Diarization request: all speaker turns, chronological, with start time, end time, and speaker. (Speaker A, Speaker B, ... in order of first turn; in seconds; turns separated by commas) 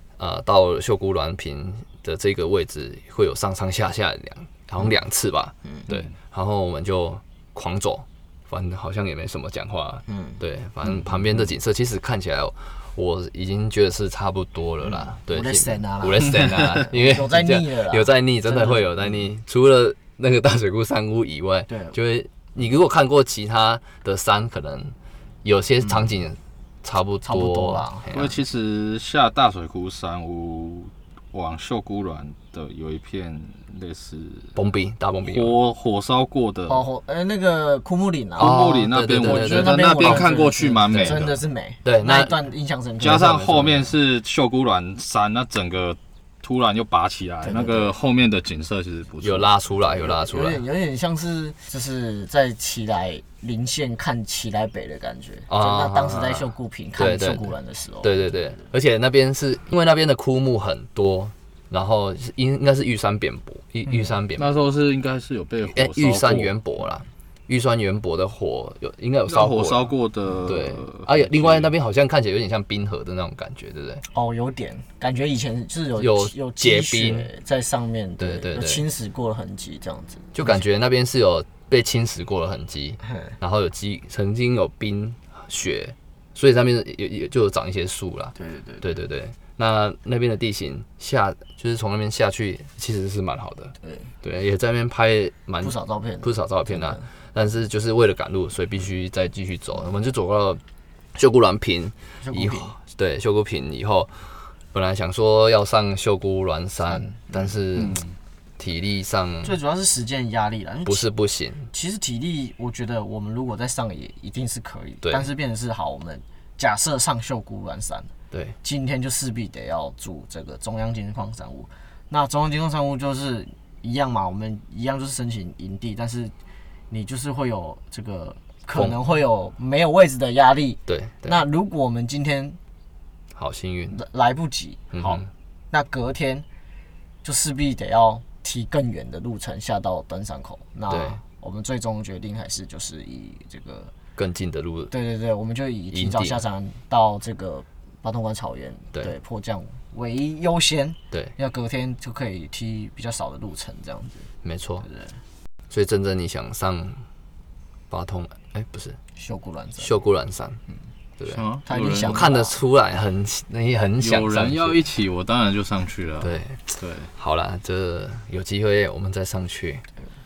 Speaker A: 0.2-28.3, Speaker B: 10.1-10.4, Speaker B: 15.0-18.9, Speaker B: 21.7-22.0, Speaker B: 27.2-28.1, Speaker C: 28.1-34.5, Speaker A: 34.5-35.6, Speaker C: 35.2-36.9, Speaker B: 36.7-38.6, Speaker A: 38.4-40.3, Speaker C: 38.4-41.4, Speaker B: 39.2-43.4, Speaker A: 41.8-42.4, Speaker C: 43.0-49.8, Speaker A: 43.0-43.9, Speaker B: 47.4-48.0, Speaker A: 49.2-50.6, Speaker B: 50.0-58.2, Speaker A: 55.5-64.5, Speaker B: 63.9-64.1, Speaker C: 64.4-66.6, Speaker A: 65.6-69.9, Speaker C: 69.2-71.7, Speaker A: 70.5-74.0, Speaker B: 74.1-80.6, Speaker A: 76.0-77.3, Speaker A: 78.2-78.8, Speaker A: 80.3-100.6, Speaker B: 83.0-83.3, Speaker B: 88.3-88.9, Speaker B: 93.8-94.1, Speaker B: 95.6-97.0, Speaker A: 101.1-108.0, Speaker B: 102.2-102.8, Speaker B: 106.8-107.5, Speaker C: 107.8-108.2, Speaker A: 108.6-109.6, Speaker B: 109.4-111.1, Speaker A: 110.8-111.7, Speaker B: 111.7-118.1, Speaker A: 115.0-115.3, Speaker A: 118.3-118.5, Speaker B: 118.6-126.3, Speaker B: 126.9-132.6, Speaker A: 130.9-131.4, Speaker A: 133.3-134.0, Speaker B: 133.9-136.4, Speaker A: 134.9-135.3, Speaker B: 137.2-143.9, Speaker A: 140.9-141.2, Speaker A: 144.2-144.9, Speaker B: 144.9-154.3, Speaker A: 145.9-146.4, Speaker A: 154.4-154.8, Speaker B: 154.8-155.2, Speaker A: 155.7-157.0, Speaker A: 157.9-159.0, Speaker B: 159.2-160.0, Speaker A: 159.8-160.6, Speaker A: 161.2-164.8, Speaker C: 161.2-162.3, Speaker B: 161.7-162.6, Speaker C: 164.0-167.1, Speaker A: 166.2-169.8